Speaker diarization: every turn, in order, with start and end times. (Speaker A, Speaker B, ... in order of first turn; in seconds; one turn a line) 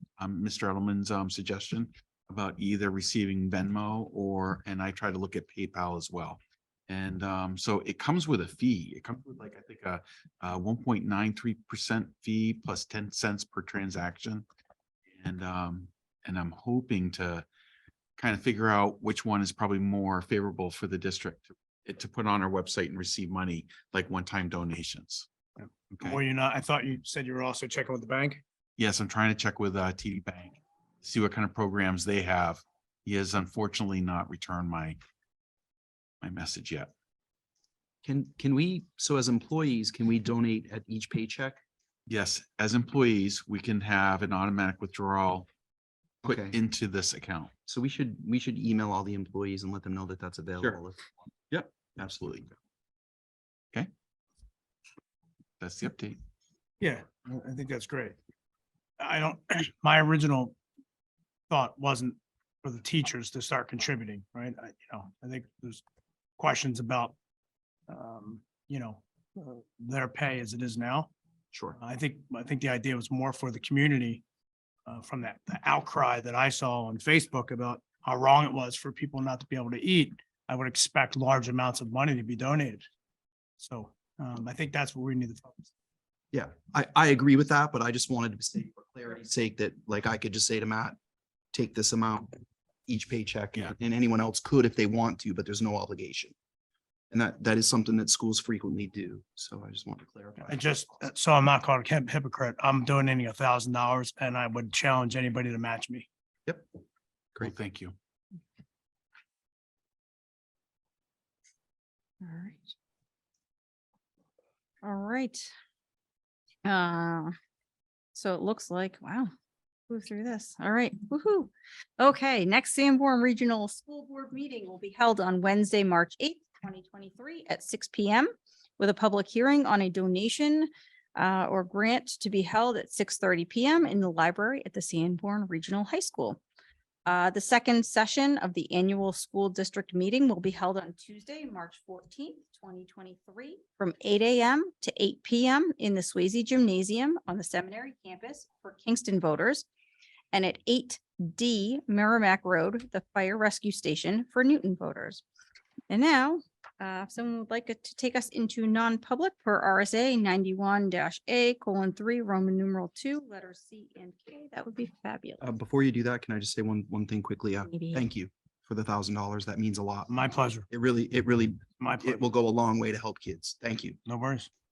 Speaker A: 0.2-14.4
Speaker A: 15.2-17.4
Speaker A: 18.2-25.3
Speaker B: 25.6-28.4
Speaker A: 25.9-26.2
Speaker A: 28.8-35.0
Speaker A: 36.2-36.9
Speaker C: 38.0-41.6
Speaker A: 42.1-45.5
Speaker C: 46.2-46.5
Speaker A: 46.2-47.5
Speaker C: 47.7-51.0
Speaker A: 51.5-52.5
Speaker C: 52.0-52.4
Speaker A: 55.6-56.2
Speaker B: 56.8-58.1
Speaker B: 59.0-60.5
Speaker B: 61.5-65.8
Speaker B: 66.4-67.1
Speaker B: 67.9-71.1
Speaker C: 71.5-71.8
Speaker B: 71.8-74.2
Speaker B: 74.8-82.9
Speaker B: 83.6-85.7
Speaker C: 86.3-91.0
Speaker C: 91.5-92.3
Speaker C: 92.9-96.3
Speaker C: 97.1-100.6
Speaker B: 100.4-106.1
Speaker A: 107.4-107.9
Speaker D: 112.2-112.7
Speaker D: 114.8-115.5
Speaker D: 116.6-117.3
Speaker D: 118.1-119.3
Speaker D: 119.9-136.4
Speaker D: 137.1-149.7
Speaker D: 150.3-155.2
Speaker D: 155.9-165.4
Speaker C: 165.4-170.1
Speaker D: 167.7-168.1
Speaker B: 170.1-170.7
Speaker C: 170.7-174.0
Speaker B: 171.8-172.2
Speaker B: 174.0-174.5